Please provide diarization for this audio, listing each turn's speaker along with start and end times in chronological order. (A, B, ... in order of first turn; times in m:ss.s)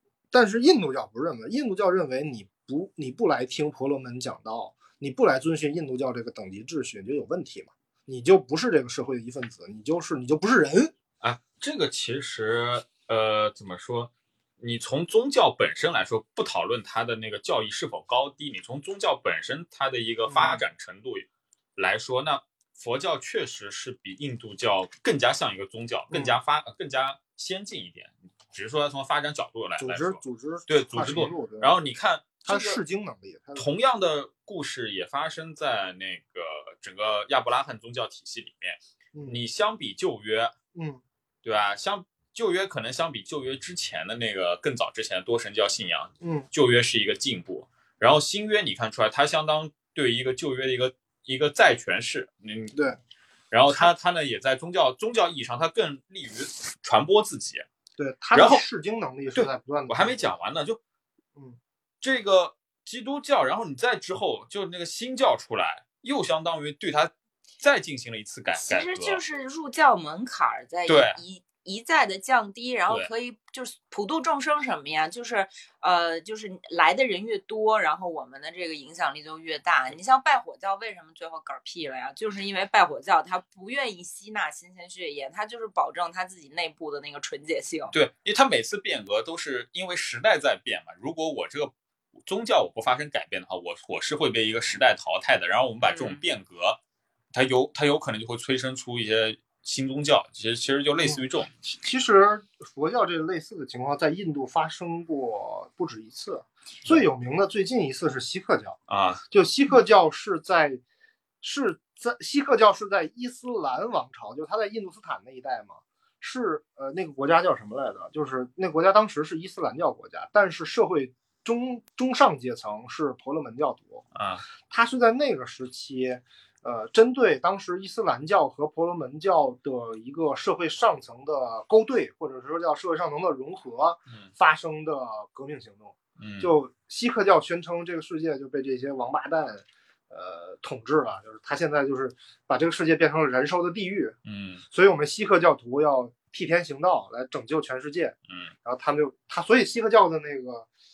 0:00.3-0:10.9 A
0:11.2-0:32.8 B
0:20.3-0:20.6 A
0:26.1-0:26.4 A
0:29.8-0:31.7 A
0:32.4-0:33.7 A
0:33.6-0:40.5 B
0:39.1-0:39.4 A
0:40.7-0:41.0 A
0:41.4-0:52.7 B
0:46.2-0:46.5 A
0:52.7-0:53.0 A
0:53.5-0:57.6 B
0:58.0-1:00.2 A
0:58.3-0:58.6 B
0:59.4-1:00.8 B
1:02.0-1:09.2 B
1:08.6-1:27.9 C
1:10.9-1:11.2 B
1:27.9-1:36.8 B
1:35.8-1:36.2 C
1:37.3-1:41.5 B
1:41.0-1:48.8 A
1:48.9-1:49.2 B
1:49.3-1:50.8 A
1:51.4-2:04.0 A
2:04.1-2:04.4 B
2:04.7-2:24.2 A
2:16.2-2:16.5 B
2:24.2-2:24.6 B
2:24.7-2:30.7 A